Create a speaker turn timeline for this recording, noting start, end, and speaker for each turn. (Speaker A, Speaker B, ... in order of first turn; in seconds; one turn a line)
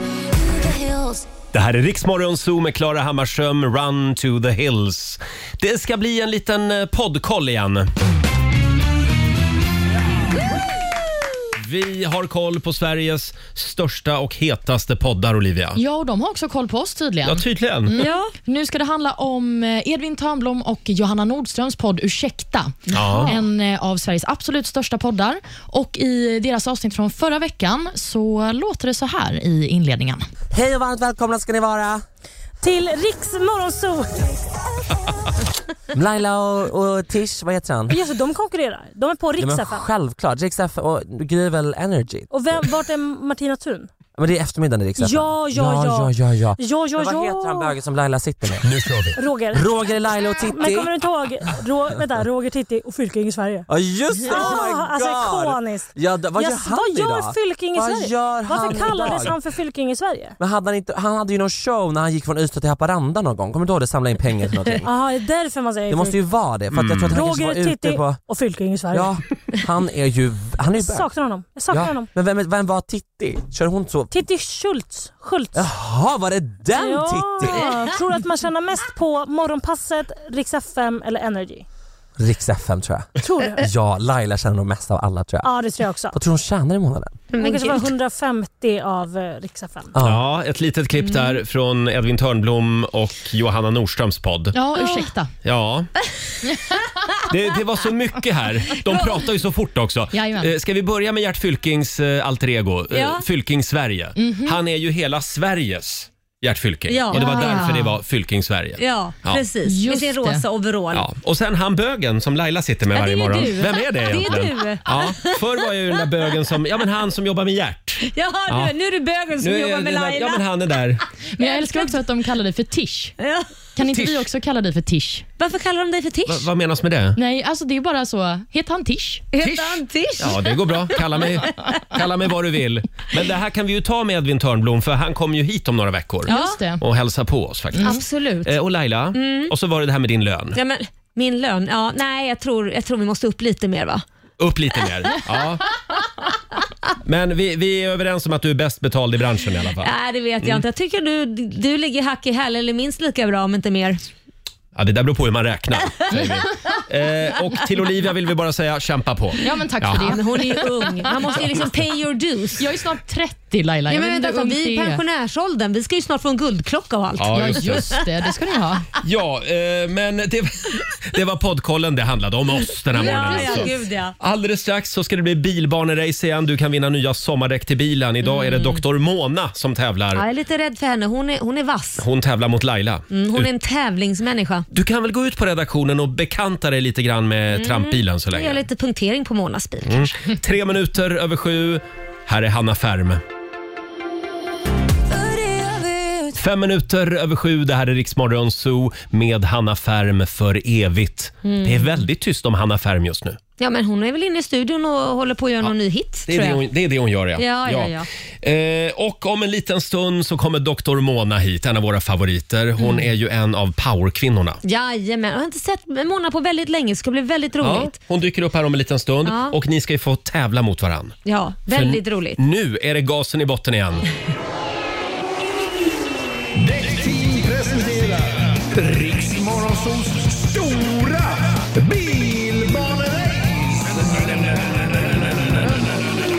Speaker A: 0.6-1.3
Speaker B: 1.5-7.9
Speaker B: 11.6-15.8
Speaker C: 15.8-30.3
Speaker B: 17.2-18.1
Speaker A: 18.0-18.3
Speaker A: 22.9-23.3
Speaker B: 22.9-23.3
Speaker D: 30.5-32.0
Speaker E: 32.6-34.3
Speaker D: 35.9-38.0
Speaker E: 37.9-39.9
Speaker D: 39.4-42.6
Speaker E: 42.3-43.9
Speaker D: 44.2-48.7
Speaker E: 45.0-47.8
Speaker E: 49.1-60.4
Speaker D: 49.5-51.0
Speaker D: 53.7-59.4
Speaker D: 60.4-64.9
Speaker E: 64.8-66.2
Speaker D: 65.9-68.2
Speaker B: 66.7-67.2
Speaker E: 67.1-69.1
Speaker D: 68.9-71.1
Speaker E: 70.8-72.1
Speaker D: 71.7-74.1
Speaker E: 74.1-75.6
Speaker D: 75.5-77.7
Speaker E: 76.7-81.7
Speaker D: 82.2-85.5
Speaker E: 83.2-83.6
Speaker A: 83.4-83.7
Speaker E: 85.4-86.2
Speaker D: 86.1-87.3
Speaker A: 87.3-87.9
Speaker E: 87.3-89.9
Speaker D: 90.0-90.2
Speaker B: 90.0-94.6
Speaker A: 91.1-91.4
Speaker C: 94.5-95.3
Speaker A: 94.8-95.0
Speaker B: 95.4-95.9
Speaker B: 97.3-109.4
Speaker A: 98.9-99.1
Speaker C: 100.1-100.5
Speaker A: 102.9-103.2
Speaker C: 104.2-104.6
Speaker A: 106.9-107.8
Speaker C: 107.1-108.0
Speaker A: 108.8-111.1
Speaker C: 109.7-110.4
Speaker B: 110.9-118.7
Speaker A: 112.9-116.0
Speaker A: 118.0-120.5
Speaker B: 119.4-121.0
Speaker C: 121.4-123.2
Speaker A: 121.4-122.0
Speaker A: 123.2-123.5
Speaker C: 123.8-125.2
Speaker B: 123.8-124.3
Speaker A: 125.4-126.5
Speaker B: 126.3-127.2
Speaker C: 127.2-129.2
Speaker A: 129.3-131.7
Speaker B: 129.4-140.6
Speaker C: 136.3-136.8
Speaker A: 136.3-136.6
Speaker C: 137.7-138.0
Speaker A: 137.8-138.5
Speaker A: 139.1-139.5
Speaker A: 140.6-144.1
Speaker B: 144.4-145.7
Speaker B: 147.0-149.9
Speaker A: 149.8-154.0
Speaker B: 154.8-160.2
Speaker C: 159.4-160.8
Speaker A: 160.0-162.7
Speaker C: 162.6-165.0
Speaker A: 163.9-167.9
Speaker B: 167.2-168.0
Speaker C: 167.3-168.9
Speaker B: 169.0-180.2
Speaker A: 172.9-174.2
Speaker C: 172.9-173.7
Speaker A: 178.2-178.8
Speaker A: 180.1-182.1
Speaker B: 182.0-183.5
Speaker A: 183.1-184.7
Speaker B: 184.7-188.6
Speaker A: 187.5-190.3
Speaker B: 189.9-193.2
Speaker A: 195.1-196.3
Speaker B: 196.4-203.4
Speaker A: 201.4-202.0
Speaker A: 203.6-206.6
Speaker B: 206.3-214.6
Speaker A: 207.4-208.1
Speaker A: 212.8-213.1
Speaker A: 214.7-217.9
Speaker B: 217.6-221.2
Speaker A: 219.2-219.6
Speaker A: 221.3-222.4
Speaker B: 221.7-224.1
Speaker F: 226.6-236.0